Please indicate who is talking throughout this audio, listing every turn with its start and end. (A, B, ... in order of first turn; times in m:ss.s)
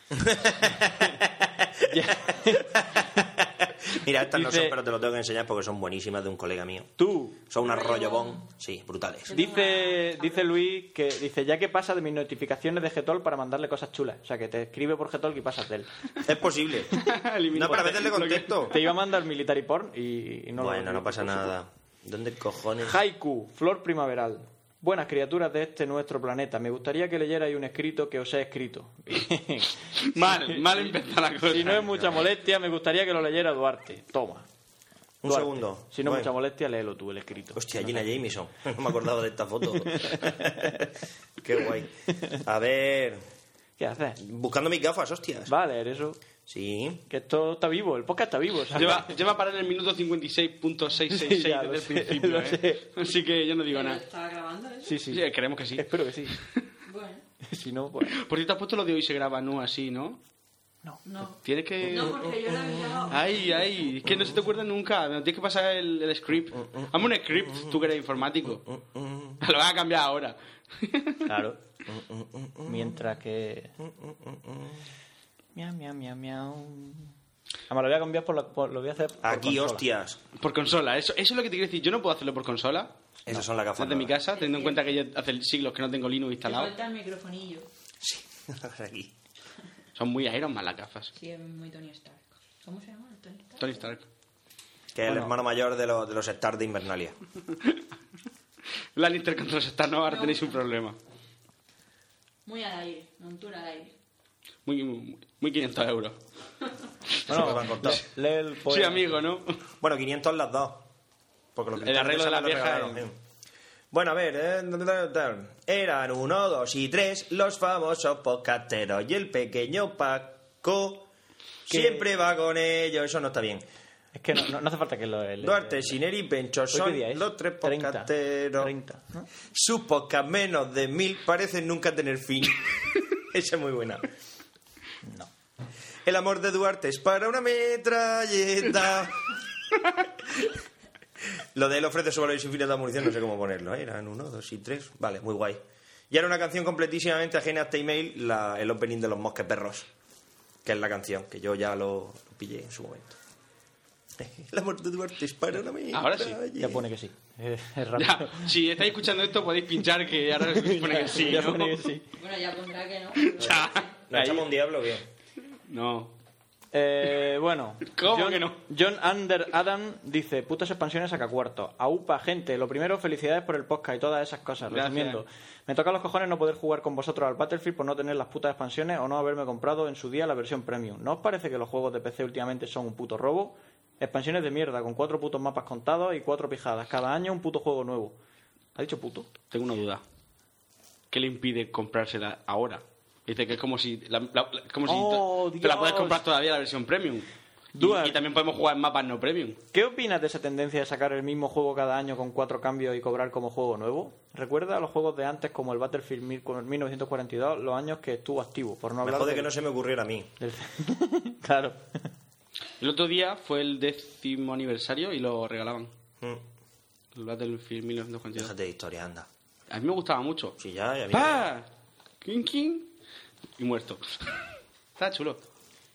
0:00.2-0:06.9 A
0:01.9-0:03.2 B
0:04.3-0:04.8 B
0:07.0-0:07.5 B
0:07.5-0:09.3 A
0:07.6-0:08.4 C
0:09.3-0:10.4 C
0:09.3-0:15.9 B
0:16.2-0:18.8 A
0:17.0-0:18.7 D
0:18.7-0:21.5 B
0:20.6-0:23.0 A
0:22.8-0:30.9 B
0:30.0-0:32.2 D
0:31.5-0:34.5 B
0:35.2-0:36.3 A
0:35.2-0:38.1 B
0:37.6-0:43.2 A
0:39.6-0:40.9 B
0:43.8-0:44.2 B
0:44.2-0:45.5 A
0:45.5-0:46.2 B
0:46.5-0:47.0 A
0:47.1-0:49.1 B
0:48.7-0:54.0 D
0:51.1-0:52.8 B
0:53.7-0:55.0 C
0:54.8-0:56.4 B
0:55.1-0:56.6 D
0:56.9-0:57.2 C
0:57.4-0:58.2 B
0:58.1-1:00.2 D
1:01.0-1:03.3 C
1:01.4-1:02.4 D
1:02.5-1:03.0 A
1:03.1-1:08.6 D
1:06.7-1:07.8 A
1:08.5-1:09.4 A
1:09.4-1:11.3 D
1:11.2-1:11.6 B
1:11.9-1:13.0 A
1:12.7-1:13.7 B
1:13.8-1:14.8 A
1:15.6-1:17.1 B
1:17.7-1:19.8 B
1:19.2-1:20.2 A
1:20.4-1:22.9 D
1:23.3-1:24.2 A
1:23.8-1:26.7 D
1:24.3-1:25.0 C
1:26.4-1:27.7 C
1:28.0-1:29.1 A
1:30.0-1:31.1 D
1:31.2-1:33.9 C
1:33.6-1:34.0 D
1:35.0-1:37.2 A
1:35.0-1:35.4 B
1:39.0-1:41.0 D
1:40.1-1:40.5 C
1:42.5-1:43.9 C
1:44.6-1:46.2 D
1:47.3-1:48.0 A
1:47.3-1:49.2 B
1:47.3-1:48.0 D
1:48.7-1:49.6 D
1:49.8-1:50.9 A
1:51.6-1:53.2 A
1:51.8-1:53.1 D
1:53.9-2:01.1 A
2:01.6-2:03.6 A
2:01.7-2:02.1 B
2:04.1-2:06.0 B
2:05.4-2:08.7 A
2:06.7-2:09.3 B
2:09.5-2:14.0 A
2:15.0-2:15.3 B
2:16.0-2:19.3 A
2:21.5-2:29.9 A
2:30.6-2:33.2 A
2:34.2-2:36.8 A
2:35.9-2:36.4 D
2:36.6-2:38.5 B
2:38.0-2:41.9 D
2:40.4-2:42.1 B
2:42.2-2:43.9 C
2:43.2-2:43.8 D
2:44.1-2:45.1 A
2:44.1-2:44.5 B
2:45.7-2:46.1 D
2:46.7-3:08.2 B
2:47.9-2:48.6 D
2:54.7-2:55.2 D
3:08.8-3:09.3 B
3:09.5-3:10.0 D
3:11.1-3:17.3 D
3:14.9-3:16.2 B
3:17.8-3:18.2 B
3:17.8-3:19.6 D
3:19.7-3:29.5 B
3:29.0-3:30.3 A
3:30.4-3:31.9 B
3:32.8-3:35.9 D
3:37.2-3:38.5 D
3:38.4-3:39.3 A
3:39.7-3:40.6 D
3:40.6-3:41.5 A
3:41.1-3:41.7 D
3:42.2-3:42.9 D
3:43.6-3:44.3 D
3:45.0-3:45.4 D